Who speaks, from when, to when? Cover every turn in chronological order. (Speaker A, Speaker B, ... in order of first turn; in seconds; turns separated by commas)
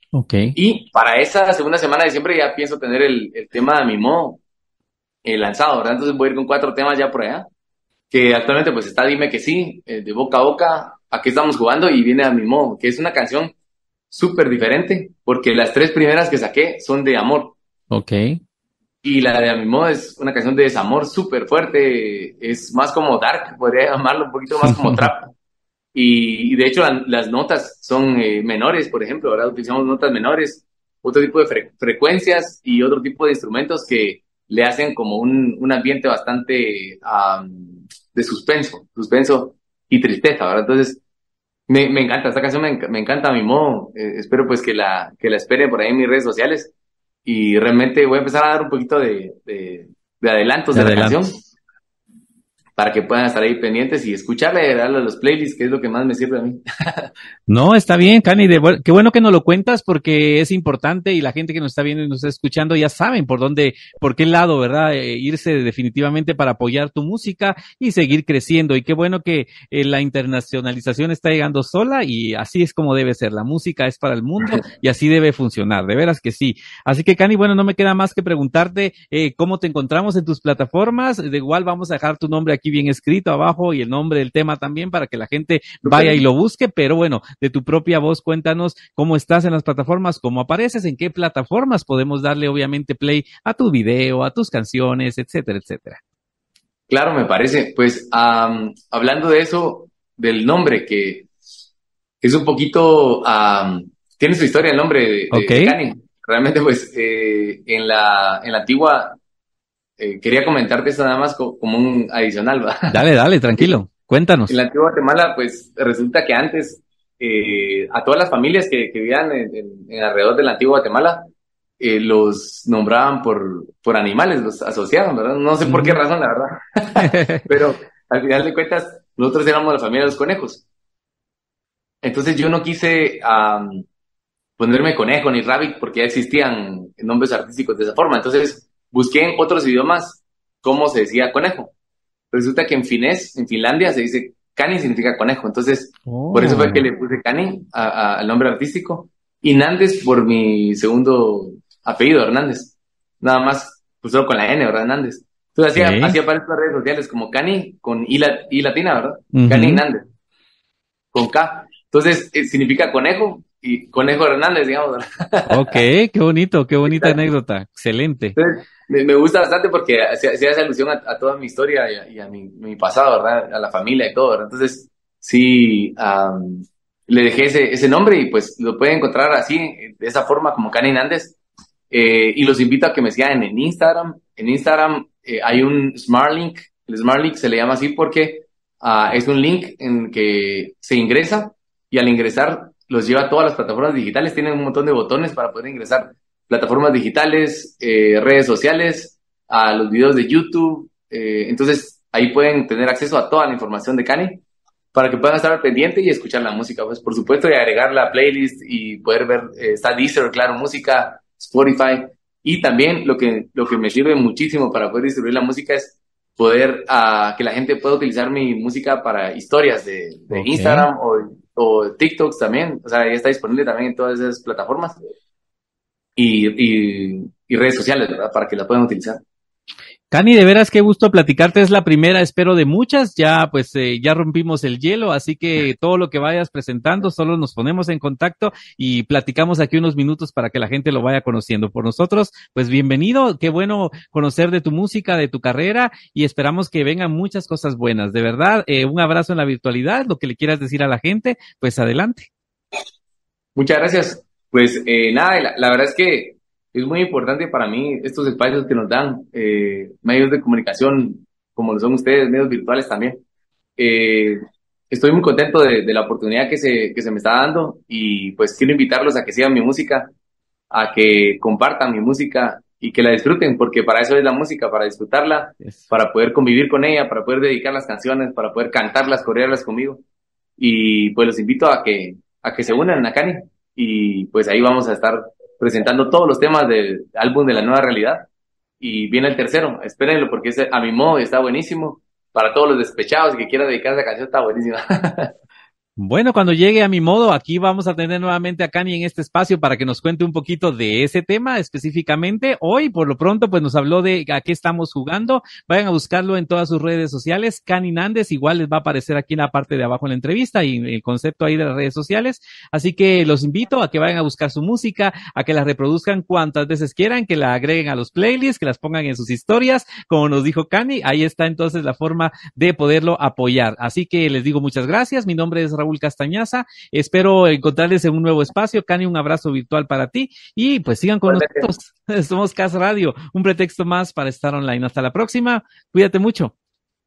Speaker A: 0.1-0.6, Speaker B: 0.6-4.4, Speaker B: 5.2-7.5, Speaker B: 8.1-13.5, Speaker B: 14.1-17.6, Speaker A: 17.9-18.4, Speaker B: 19.0-25.3, Speaker A: 24.6-25.1, Speaker B: 25.9-41.0, Speaker B: 41.7-46.7, Speaker B: 47.2-51.3, Speaker A: 50.7-51.2, Speaker B: 52.8-57.1, Speaker A: 57.5-96.0, Speaker B: 85.8-86.2, Speaker B: 96.9-101.3, Speaker B: 102.2-109.2, Speaker A: 105.3-105.8, Speaker B: 110.0-112.8, Speaker A: 112.9-114.5, Speaker B: 114.5-121.3, Speaker B: 121.8-130.7, Speaker A: 125.6-126.0, Speaker A: 127.0-127.5, Speaker B: 132.0-133.9, Speaker B: 134.6-141.7, Speaker B: 142.3-160.1, Speaker A: 146.1-146.9, Speaker A: 155.8-156.2, Speaker A: 159.3-159.8, Speaker B: 161.1-165.8, Speaker A: 165.5-168.4, Speaker B: 166.8-167.2, Speaker B: 168.4-181.4, Speaker B: 181.9-204.4, Speaker B: 204.9-225.0, Speaker A: 220.3-220.9, Speaker B: 226.2-229.2, Speaker A: 230.1-252.3, Speaker B: 253.6-263.2, Speaker B: 263.8-264.4, Speaker B: 264.9-270.1, Speaker B: 270.7-280.0, Speaker A: 275.6-275.9, Speaker B: 280.6-288.3, Speaker B: 288.8-295.3, Speaker A: 296.0-336.5, Speaker B: 331.3-331.7